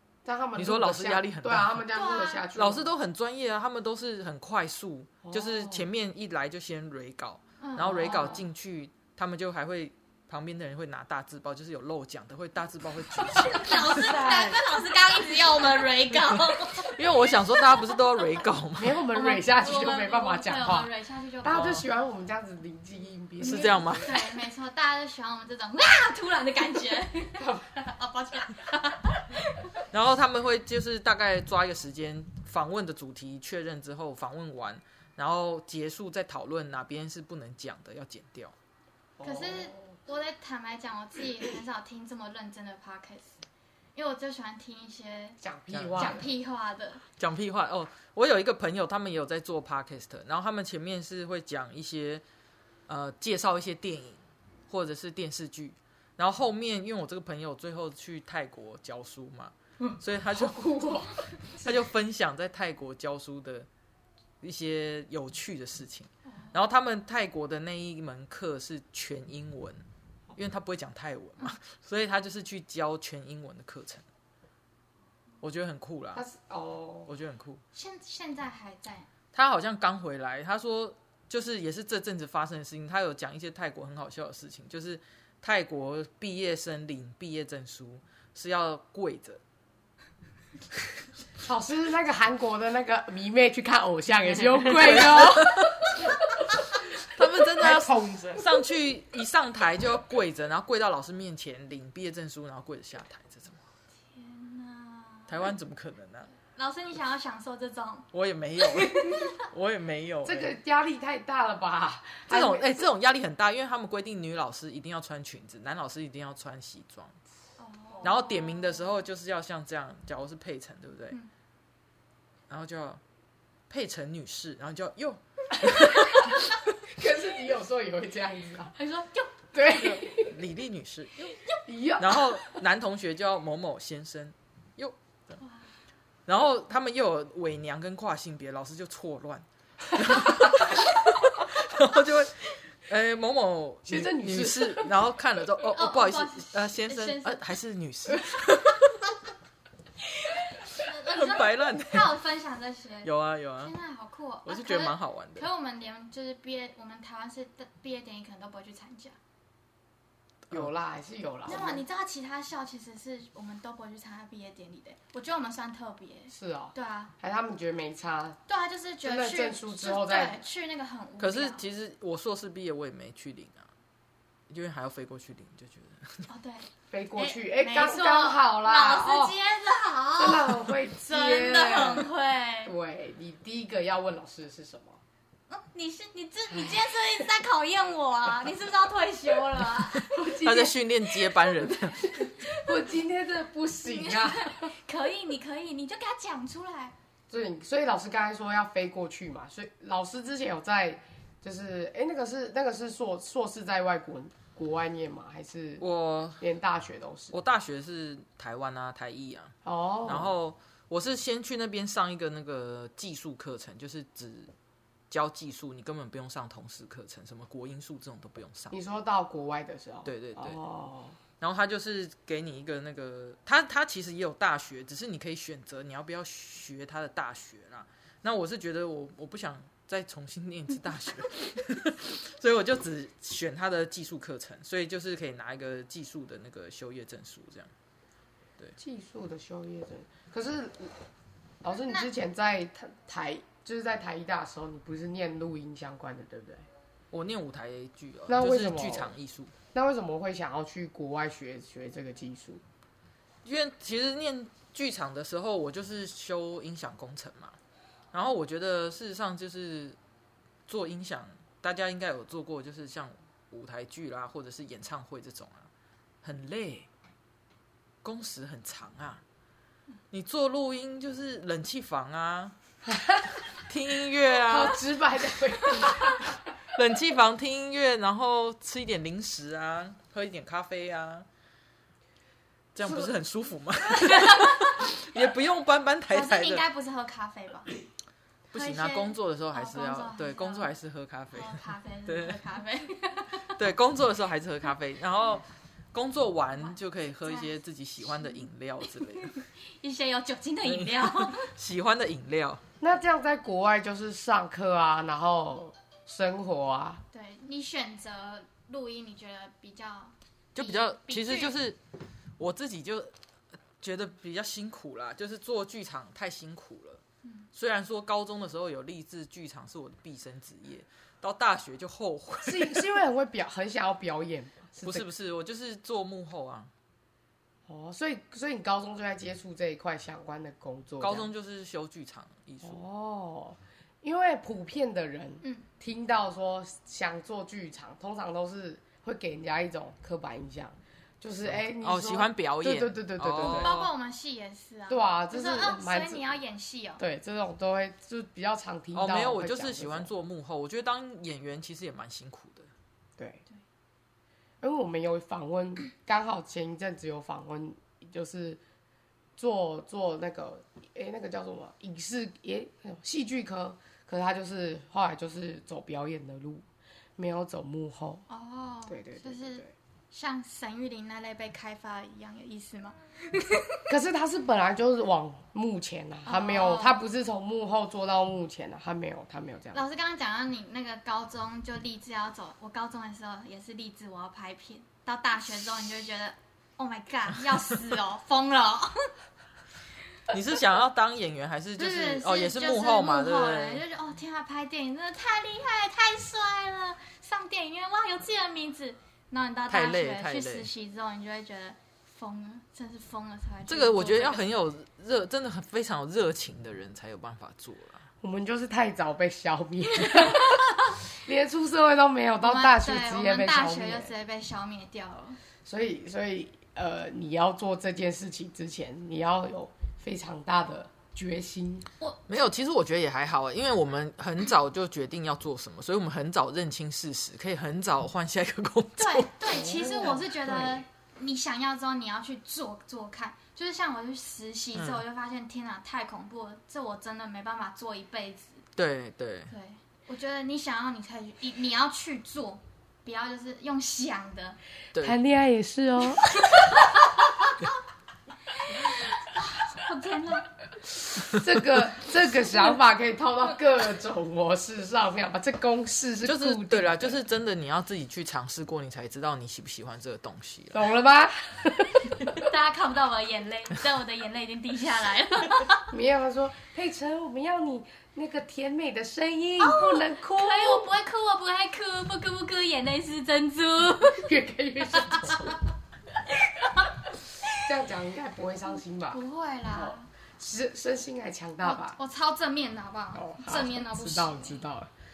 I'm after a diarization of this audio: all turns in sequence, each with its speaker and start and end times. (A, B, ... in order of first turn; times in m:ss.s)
0:00.2-0:02.9 A
0:00.6-0:01.8 B
0:01.9-0:02.4 C
0:02.5-0:14.5 B
0:05.2-0:05.9 A
0:07.6-0:08.2 C
0:07.8-0:08.4 A
0:13.5-0:17.0 C
0:14.0-0:14.6 A
0:16.8-0:19.0 B
0:17.6-0:18.0 C
0:18.8-0:20.9 A
0:19.1-0:21.7 C
0:21.4-0:24.2 A
0:21.5-0:21.8 B
0:23.4-0:24.1 B
0:24.0-0:29.8 C
0:27.4-0:27.7 A
0:29.9-0:38.5 B
0:39.2-0:39.9 A
0:39.2-0:43.4 C
0:43.9-0:45.4 C
0:45.4-0:46.2 A
0:45.7-0:46.2 B
0:46.0-0:47.0 C
0:47.2-0:52.2 B
0:52.9-1:01.0 B
1:00.3-1:01.8 A
1:01.6-1:03.7 B
1:04.4-1:09.8 B
1:10.3-1:14.0 B
1:15.4-1:16.2 B
1:16.1-1:17.1 A
1:17.1-1:17.6 B
1:17.7-1:19.1 C
1:19.3-1:29.4 B
1:31.4-1:36.9 A
1:34.6-1:35.8 B
1:37.0-1:43.6 B
1:37.6-1:38.5 A
1:44.1-1:45.5 C
1:45.3-1:46.3 B
1:46.5-1:48.1 C
1:48.1-1:50.5 B
1:48.7-1:49.3 C
1:50.2-1:52.9 A
1:52.3-1:57.1 B
1:57.6-1:58.8 C
1:58.0-2:01.2 B
2:02.5-2:03.0 B
2:03.7-2:06.5 B
2:06.9-2:08.8 A
2:08.8-2:09.3 C
2:09.5-2:10.3 A
2:09.7-2:11.3 B
2:11.6-2:12.4 A
2:12.0-2:15.0 B
2:16.3-2:29.0 B
2:23.9-2:24.9 A
2:25.7-2:27.4 C
2:30.3-2:39.2 C
2:30.8-2:32.1 B
2:33.0-2:33.7 B
2:34.4-2:35.5 B
2:40.5-2:41.8 A
2:41.4-2:47.1 C
2:46.3-2:48.4 A
2:48.5-2:51.6 C
2:49.0-2:50.4 A
2:51.2-2:53.6 B
2:54.5-2:56.3 B
2:56.3-3:02.7 C
2:56.9-2:59.3 A
3:00.2-3:02.1 A
3:02.6-3:05.0 A
3:05.5-3:10.1 C
3:10.0-3:10.8 A
3:10.3-3:12.2 B
3:12.2-3:12.7 C
3:12.4-3:14.7 A
3:13.9-3:16.9 C
3:17.3-3:25.8 A
3:25.8-3:26.4 B
3:26.4-3:27.4 A
3:27.3-3:29.5 B
3:29.6-3:30.3 A
3:30.0-3:34.5 B
3:35.1-3:38.8 B
3:38.7-3:41.2 A
3:40.0-3:40.6 B
3:41.4-3:57.7 B
3:58.8-4:01.0 A
4:01.6-4:06.7 A
4:07.1-4:09.5 B
4:08.3-4:09.1 A
4:09.7-4:12.6 A
4:13.4-4:17.6 B
4:18.1-4:20.0 B
4:20.7-4:25.7 B
4:26.2-4:26.9 B
4:28.0-4:29.2 B
4:30.1-4:32.5 B
4:32.8-4:33.4 A
4:33.5-4:34.8 B
4:34.5-4:36.3 A
4:36.7-4:41.2 B
4:42.7-4:46.6 B
4:44.0-4:44.8 C
4:46.1-4:47.7 C
4:48.5-4:52.4 B
4:48.5-4:50.7 C
4:51.3-4:53.5 C
4:53.5-4:59.4 B
4:56.6-4:57.5 C
4:59.0-5:01.5 C
5:00.6-5:02.6 B
5:02.8-5:07.0 A
5:07.1-5:11.5 C
5:10.5-5:11.8 B
5:12.4-5:13.1 B
5:13.8-5:17.0 B
5:17.5-5:22.8 B
5:22.4-5:25.0 A
5:24.8-5:26.7 B
5:27.7-5:31.3 A
5:31.0-5:32.8 B
5:32.6-5:43.7 A
5:41.6-5:43.9 B
5:43.4-5:47.0 C
5:44.9-5:46.2 A
5:47.0-5:50.1 A
5:48.9-5:52.7 B
5:53.2-5:53.4 A
5:54.6-5:58.6 A
5:59.4-6:06.6 A
6:07.2-6:08.2 A
6:08.3-6:13.8 C
6:08.9-6:09.7 A
6:13.9-6:19.8 A
6:16.2-6:17.0 C
6:19.7-6:29.1 C
6:30.3-6:33.8 B
6:31.8-6:44.4 C
6:39.7-6:40.7 B
6:43.7-6:48.0 B
6:48.2-6:54.1 A
6:50.0-6:51.0 C
6:52.4-6:55.4 C
6:55.6-7:01.9 A
7:02.3-7:09.3 B
7:09.0-7:18.6 C
7:09.5-7:10.8 A
7:14.7-7:15.0 B
7:18.8-7:19.5 B
7:19.5-7:24.6 C
7:25.0-7:26.4 A
7:26.4-7:27.5 C
7:28.5-7:30.5 C
7:31.2-7:37.2 A
7:36.2-7:40.9 B
7:40.7-7:42.4 A
7:42.4-7:45.8 C
7:45.9-7:50.9 A
7:49.6-7:54.3 C
7:54.2-7:55.6 A
7:54.9-7:55.6 C
7:56.5-7:57.6 C
7:57.6-7:59.2 A
7:59.1-8:00.1 C
7:59.7-8:02.0 A
8:01.6-8:04.6 C
8:03.1-8:04.9 A